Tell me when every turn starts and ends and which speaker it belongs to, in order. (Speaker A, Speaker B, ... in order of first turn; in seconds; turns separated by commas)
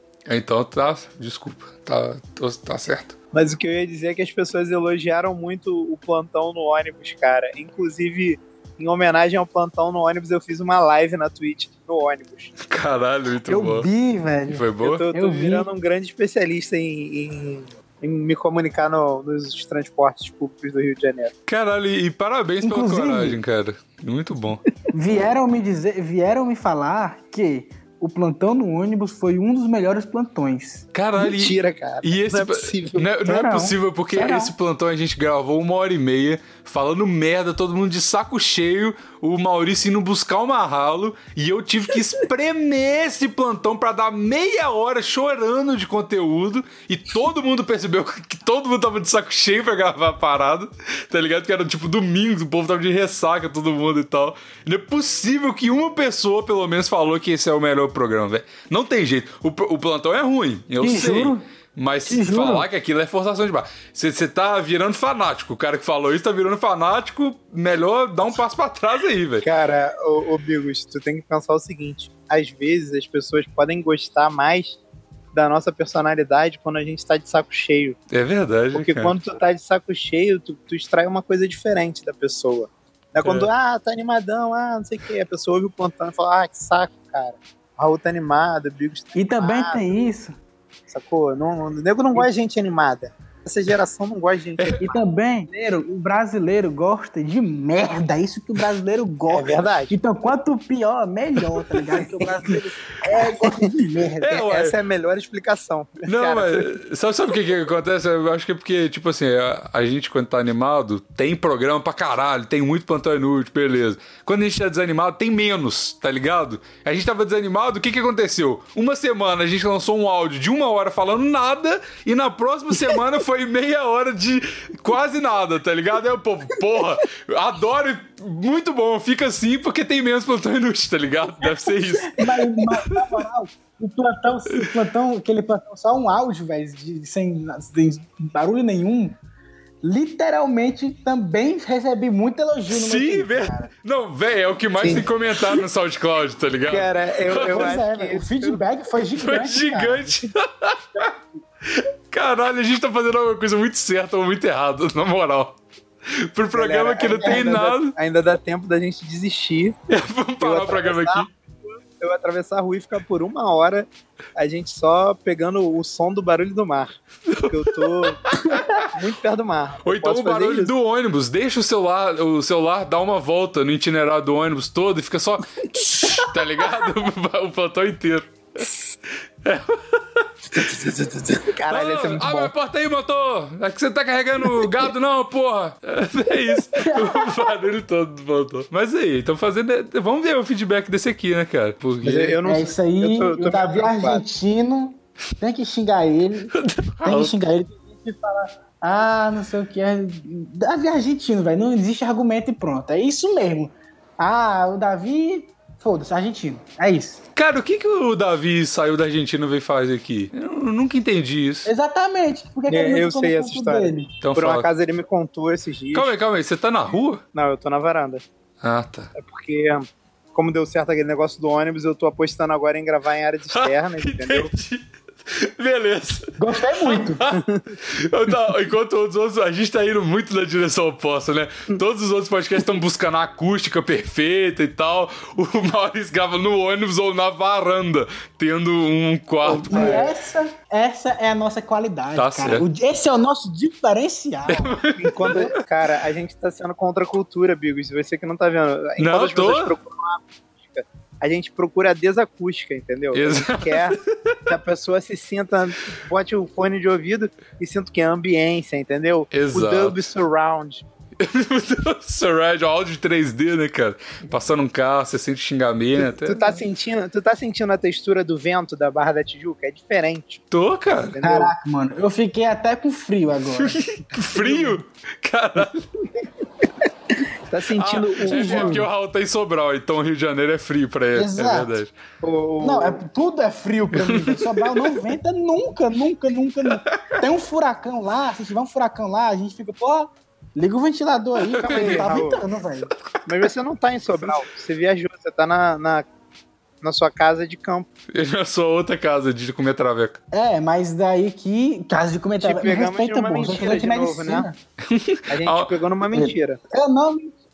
Speaker A: 0.3-3.2, Speaker B: 3.3-12.5, Speaker A: 12.6-13.9, Speaker C: 13.4-15.7, Speaker A: 14.5-15.1, Speaker B: 14.8-21.3, Speaker A: 21.5-24.6, Speaker C: 22.6-23.4, Speaker C: 24.9-30.9, Speaker A: 30.9-69.5, Speaker B: 31.2-33.1, Speaker C: 33.2-34.5, Speaker C: 60.8-61.4, Speaker C: 62.1-62.7, Speaker B: 69.4-74.8, Speaker B: 75.3-78.0, Speaker A: 78.1-79.2, Speaker B: 78.7-90.0, Speaker A: 83.2-83.5, Speaker C: 89.2-90.3, Speaker B: 90.9-95.0, Speaker C: 94.7-104.4, Speaker B: 99.3-100.0, Speaker B: 103.4-103.7, Speaker A: 104.2-104.8, Speaker B: 104.3-106.7, Speaker A: 106.1-133.2, Speaker C: 132.1-139.2, Speaker C: 139.8-143.7, Speaker A: 142.7-147.7, Speaker B: 144.8-145.6, Speaker B: 146.7-148.6, Speaker C: 147.5-149.8, Speaker A: 149.2-151.1, Speaker B: 149.5-150.2, Speaker A: 151.7-155.6, Speaker A: 156.1-157.9, Speaker B: 156.5-159.8, Speaker C: 157.2-157.6, Speaker A: 159.9-161.3, Speaker B: 160.4-161.3, Speaker B: 162.0-166.9, Speaker A: 167.3-168.9, Speaker B: 167.5-170.7, Speaker A: 169.8-178.3, Speaker B: 175.8-176.3, Speaker A: 179.4-180.3, Speaker B: 180.5-182.5, Speaker A: 181.7-192.4, Speaker C: 186.8-187.3, Speaker B: 192.0-194.2, Speaker C: 192.4-207.2, Speaker A: 196.5-197.3, Speaker A: 207.4-211.7, Speaker C: 211.7-214.1, Speaker B: 212.7-216.1, Speaker A: 214.2-214.7, Speaker A: 215.9-217.2, Speaker B: 217.3-218.2, Speaker A: 218.6-219.1, Speaker B: 219.2-224.5, Speaker A: 223.5-240.1, Speaker C: 226.4-227.2, Speaker B: 227.3-227.7, Speaker B: 239.4-240.1, Speaker C: 239.5-244.8, Speaker A: 242.2-242.7, Speaker A: 244.5-245.5, Speaker B: 245.0-260.8, Speaker A: 249.0-249.8, Speaker A: 253.1-254.4, Speaker A: 259.3-260.0, Speaker A: 261.2-266.6, Speaker B: 266.0-270.4, Speaker A: 270.5-271.2, Speaker B: 271.2-271.5, Speaker C: 271.2-273.8, Speaker A: 273.5-275.9, Speaker B: 274.4-274.8, Speaker B: 277.5-278.9, Speaker A: 277.8-281.9, Speaker C: 278.2-278.9, Speaker C: 281.1-281.8, Speaker B: 282.2-283.0, Speaker C: 282.6-292.9, Speaker A: 283.9-285.0, Speaker A: 286.7-287.2, Speaker A: 291.5-292.1, Speaker B: 291.6-292.4, Speaker B: 293.2-296.1, Speaker B: 296.8-297.9, Speaker A: 298.1-300.2, Speaker C: 300.3-304.6, Speaker B: 302.4-304.5, Speaker A: 304.9-305.7, Speaker B: 305.3-306.6, Speaker C: 306.1-307.4